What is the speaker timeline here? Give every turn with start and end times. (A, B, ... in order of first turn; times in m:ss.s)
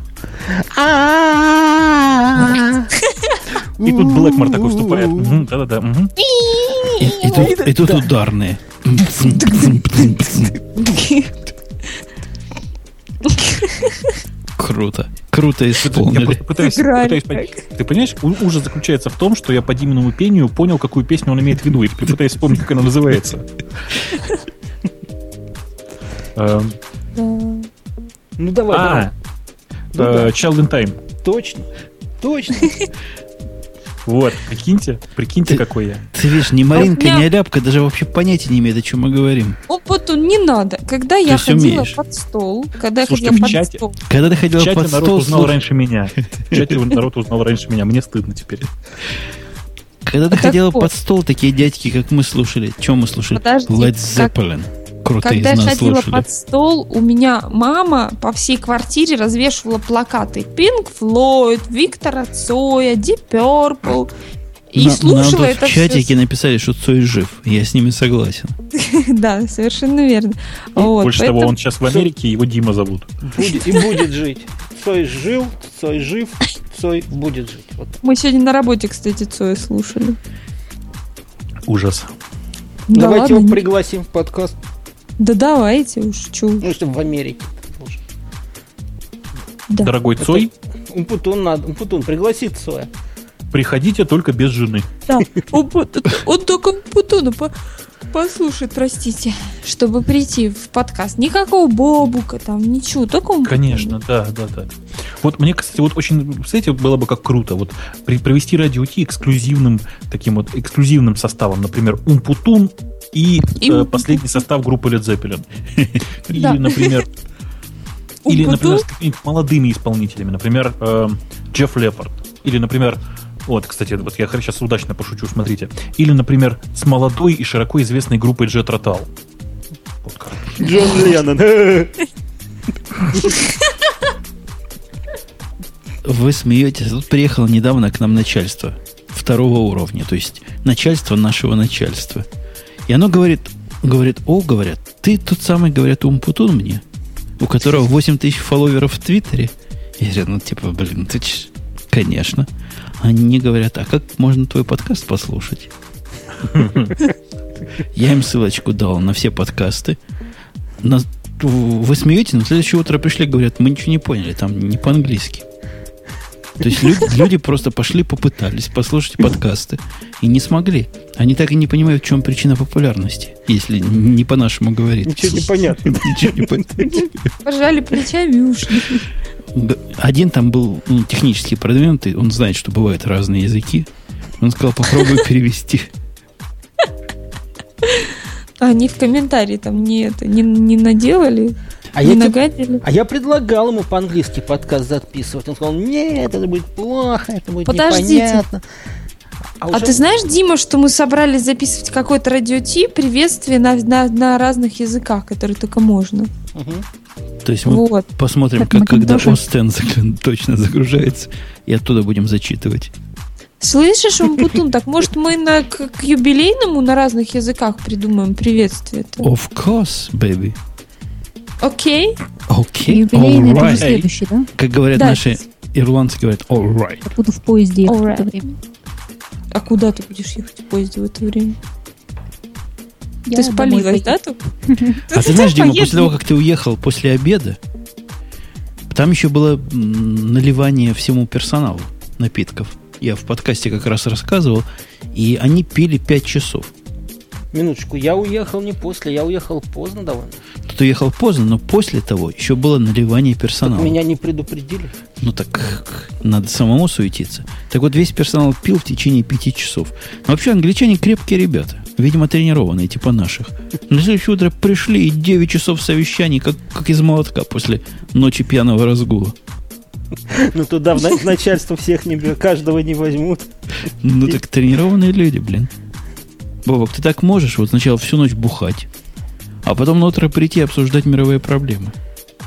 0:00.4-0:02.9 A
0:03.0-0:03.4 B
0:03.6-0:05.4 A
0:03.8-0:06.1 C
0:06.2-0:08.1 A
0:07.0-0:10.6 D
0:09.2-0:10.1 B
0:10.7-0:11.4 B
0:13.2-0:14.2 B
0:14.6-0:16.4 D
0:15.8-0:23.5 C
0:16.6-0:17.6 B
0:26.4-0:26.8 C
0:27.2-0:27.7 B
0:28.4-0:29.1 A
0:28.7-0:29.1 C
0:30.0-0:30.3 A
0:30.0-0:31.0 C
0:31.2-0:31.7 A
0:32.2-0:32.8 A
0:34.1-0:36.0 C
0:35.5-0:39.6 D
0:36.7-0:37.3 B
0:39.7-0:44.0 B
0:41.2-0:42.0 D
0:43.0-0:43.8 C
0:44.1-0:45.6 D
0:44.6-0:48.7 C
0:46.4-0:46.8 D
0:50.0-0:56.2 D
0:50.3-0:50.9 B
0:53.3-0:54.3 B
0:55.2-1:04.1 B
1:04.7-1:06.1 B
1:04.8-1:08.6 D
1:08.8-1:11.6 B
1:10.8-1:13.1 C
1:13.2-1:18.0 A
1:13.5-1:14.0 B
1:18.0-1:20.2 B
1:21.7-1:22.1 C
1:22.9-1:23.6 B
1:22.9-1:24.6 A
1:25.2-1:26.6 B
1:26.6-1:28.0 A
1:29.8-1:30.5 C
1:30.2-1:32.9 A
1:33.5-1:35.0 C
1:35.1-1:37.5 B
1:38.1-1:43.9 B
1:43.4-1:57.1 C
1:53.6-1:54.4 B
1:56.3-1:57.0 B
1:58.2-1:58.8 B
1:58.3-2:09.1 C
2:10.0-2:10.6 C
2:10.6-2:11.9 A
2:16.0-2:22.3 D
2:22.9-2:26.8 D
2:27.4-2:35.7 D
2:36.5-2:36.9 C
2:37.9-2:40.0 D
2:40.8-2:45.4 D
2:46.6-2:57.3 D
2:55.1-2:57.0 A
2:57.4-2:59.1 B
2:59.5-3:05.9 D
3:07.8-3:12.8 B
3:12.0-3:18.6 A
3:17.7-3:18.4 B
3:19.6-3:20.0 A
3:19.7-3:26.3 B
3:26.5-3:26.8 A
3:27.4-3:32.9 D
3:27.7-3:28.1 B
3:28.6-3:29.4 E
3:33.6-3:39.3 B
3:39.2-3:40.6 D
3:41.6-3:42.2 B
3:42.5-3:44.0 D
3:42.9-3:44.5 E
3:43.6-3:44.1 C
3:44.6-3:47.1 D
3:45.0-3:45.4 B
3:47.1-3:48.5 E
3:47.8-3:48.5 B
3:49.5-3:51.6 B
3:53.3-3:54.2 E
3:53.3-3:56.1 B
3:54.7-3:55.0 E
3:55.1-3:57.6 D
3:58.9-4:06.7 D
4:07.5-4:10.4 A
4:10.6-4:14.0 D
4:13.6-4:15.0 A
4:15.2-4:29.4 D
4:30.3-4:33.5 A
4:34.0-4:35.7 D
4:36.6-4:38.9 D
4:39.6-4:42.0 D